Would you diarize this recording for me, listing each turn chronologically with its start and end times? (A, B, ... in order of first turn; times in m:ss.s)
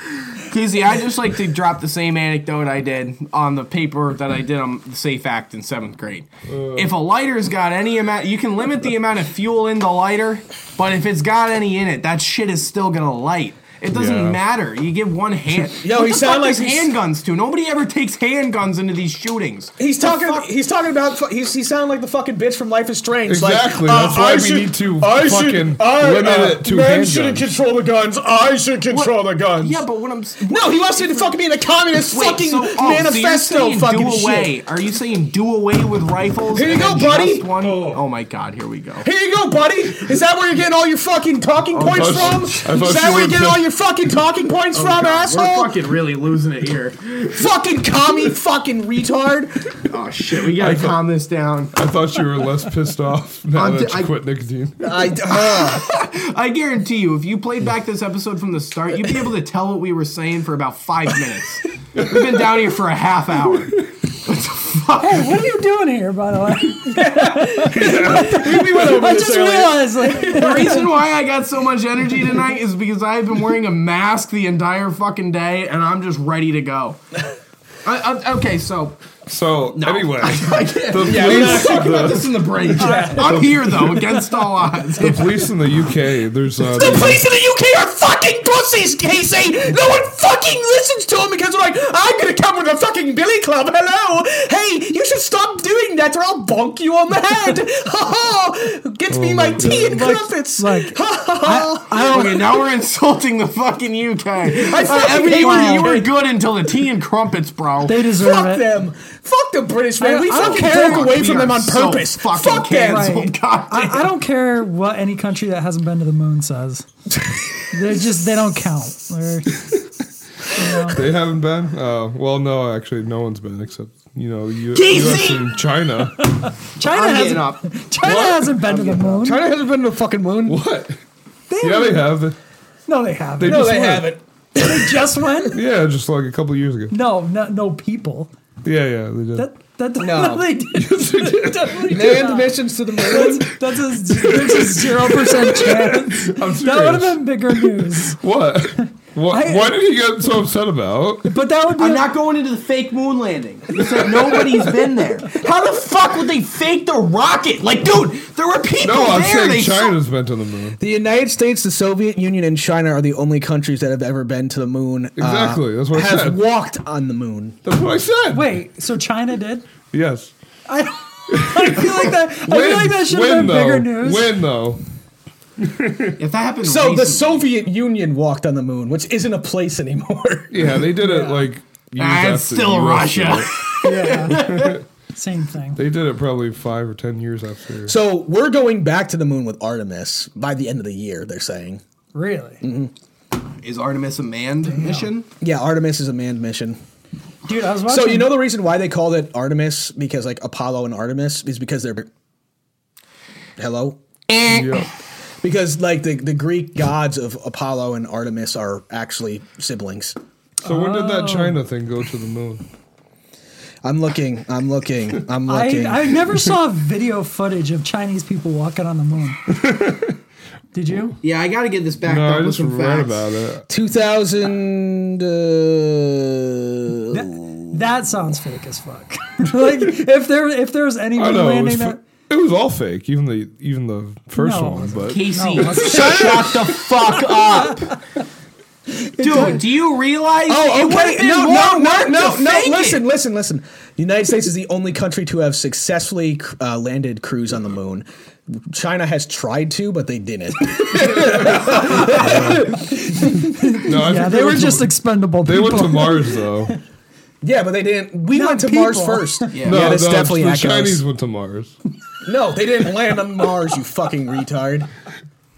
0:00.3-0:20.5 A
0:06.5-0:06.9 B
0:13.9-0:14.4 B
0:15.8-0:16.9 C
0:19.8-0:29.8 C
0:23.3-0:27.5 B
0:28.9-0:31.4 A
0:30.5-0:34.5 C
0:32.0-0:39.1 A
0:36.5-0:37.5 C
0:37.6-0:38.0 B
0:39.0-0:45.8 C
0:41.7-0:42.7 A
0:41.8-0:43.6 B
0:44.7-0:47.4 A
0:47.3-0:49.6 C
0:49.9-0:51.7 A
0:50.6-0:51.0 B
0:51.7-0:55.0 B
0:53.5-0:54.1 A
0:54.8-0:55.8 C
0:55.3-1:05.4 A
1:05.0-1:10.9 D
1:06.9-1:10.7 C
1:10.3-1:17.0 A
1:17.8-1:19.1 A
1:19.3-1:22.7 B
1:19.7-1:25.4 A
1:21.0-1:22.2 C
1:22.7-1:23.5 C
1:22.8-1:23.2 D
1:23.2-1:23.9 B
1:25.0-1:27.2 B
1:26.6-1:42.6 C
1:39.1-1:40.1 B
1:39.8-1:42.2 D
1:41.9-1:48.0 A
1:44.4-1:46.1 C
1:45.3-1:46.0 D
1:47.8-1:48.7 D
1:48.1-1:53.1 C
1:50.0-1:51.1 D
1:50.4-1:54.1 A
1:52.9-1:56.9 D
1:57.7-1:59.8 D
2:00.5-2:01.0 D
2:00.9-2:06.2 B
2:04.7-2:05.5 A
2:06.4-2:09.5 D
2:06.8-2:07.7 A
2:08.0-2:08.6 B
2:08.6-2:09.2 A
2:09.2-2:10.6 C
2:10.4-2:11.0 B
2:11.5-2:12.2 D
2:11.6-2:12.4 B
2:12.9-2:15.6 D
2:13.4-2:14.0 B
2:13.4-2:15.3 C
2:15.5-2:16.9 B
2:16.9-2:18.3 D
2:18.6-2:19.5 B
2:19.4-2:28.2 D
2:20.0-2:20.5 C
2:20.7-2:22.3 B
2:21.9-2:23.5 C
2:24.1-2:31.3 B
2:29.3-2:29.8 D
2:31.2-2:32.1 D
2:31.8-2:40.0 A
2:34.0-2:34.4 B
2:38.8-2:40.8 B
2:40.8-2:47.6 C
2:45.2-2:46.4 B
2:47.6-2:48.6 B
2:48.3-2:49.7 D
2:49.8-2:50.3 B
2:50.7-2:54.4 D
2:51.3-2:54.8 B
2:55.6-2:56.2 B
2:56.2-2:57.4 A
2:56.6-3:00.8 C
3:00.5-3:03.5 B
3:01.0-3:01.5 D
3:02.0-3:04.8 A
3:03.8-3:04.5 D
3:04.5-3:04.8 B
3:05.1-3:05.8 D
3:05.7-3:08.0 B
3:07.8-3:11.8 C
3:12.1-3:12.6 D
3:12.6-3:12.9 C
3:13.6-3:15.3 A
3:14.6-3:15.1 D
3:15.4-3:16.8 C
3:17.4-3:18.4 D
3:17.9-3:22.1 C
3:23.6-3:24.0 C
3:24.3-3:24.9 A
3:24.5-3:24.9 B
3:25.4-3:30.2 C
3:30.6-3:31.6 D
3:30.6-3:32.6 B
3:33.8-3:36.2 C
3:35.5-3:39.4 D
3:39.5-3:40.2 B
3:40.7-3:41.2 D
3:41.2-3:43.2 A
3:42.0-3:43.6 B
3:43.7-3:47.3 C
3:47.1-3:52.0 D
3:51.2-3:56.2 B
3:54.4-3:56.6 D
3:55.1-3:57.9 A
3:57.3-3:57.9 D
3:59.2-3:59.6 D
3:59.2-4:03.0 A
4:00.5-4:13.4 C
4:11.3-4:12.2 A
4:12.1-4:12.7 B
4:13.1-4:16.6 D
4:13.8-4:16.7 B
4:17.4-4:21.0 C
4:18.3-4:19.5 D
4:19.5-4:20.0 A
4:19.6-4:21.7 B
4:22.2-4:24.9 C